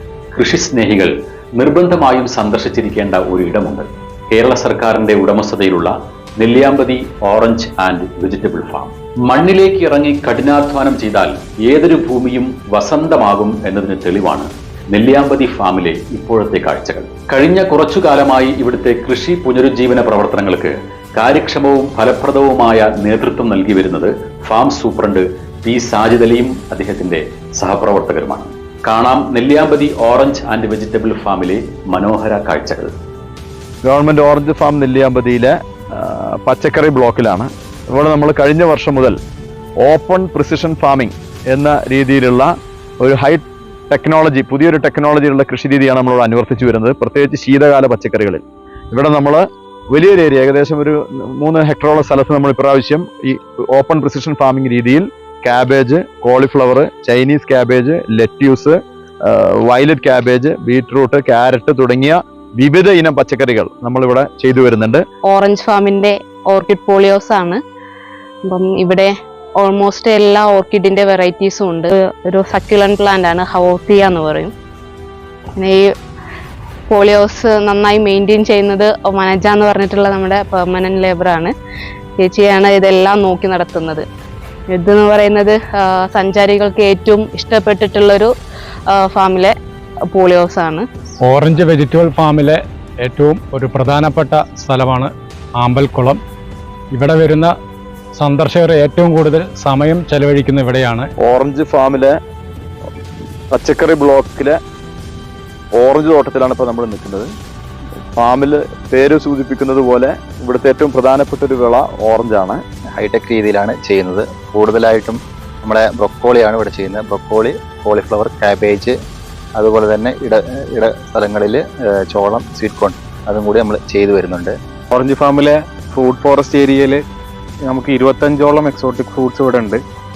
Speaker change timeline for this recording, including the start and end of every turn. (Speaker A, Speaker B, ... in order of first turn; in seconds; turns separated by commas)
Speaker A: 0.3-32.9, Speaker B: 33.9-39.2, Speaker B: 39.8-42.5, Speaker B: 43.0-65.0, Speaker C: 65.2-67.6, Speaker C: 68.5-74.5, Speaker C: 75.6-75.9, Speaker C: 76.9-81.5, Speaker C: 82.2-84.1, Speaker C: 84.7-88.3, Speaker C: 88.9-89.6, Speaker C: 90.1-90.9, Speaker D: 91.2-96.2, Speaker D: 97.0-97.5, Speaker D: 98.2-101.1, Speaker B: 101.2-102.1, Speaker B: 103.5-104.6, Speaker B: 105.8-107.3, Speaker B: 108.2-112.6, Speaker E: 113.0-119.0, Speaker E: 119.6-124.6, Speaker F: 124.9-127.0, Speaker F: 127.7-129.8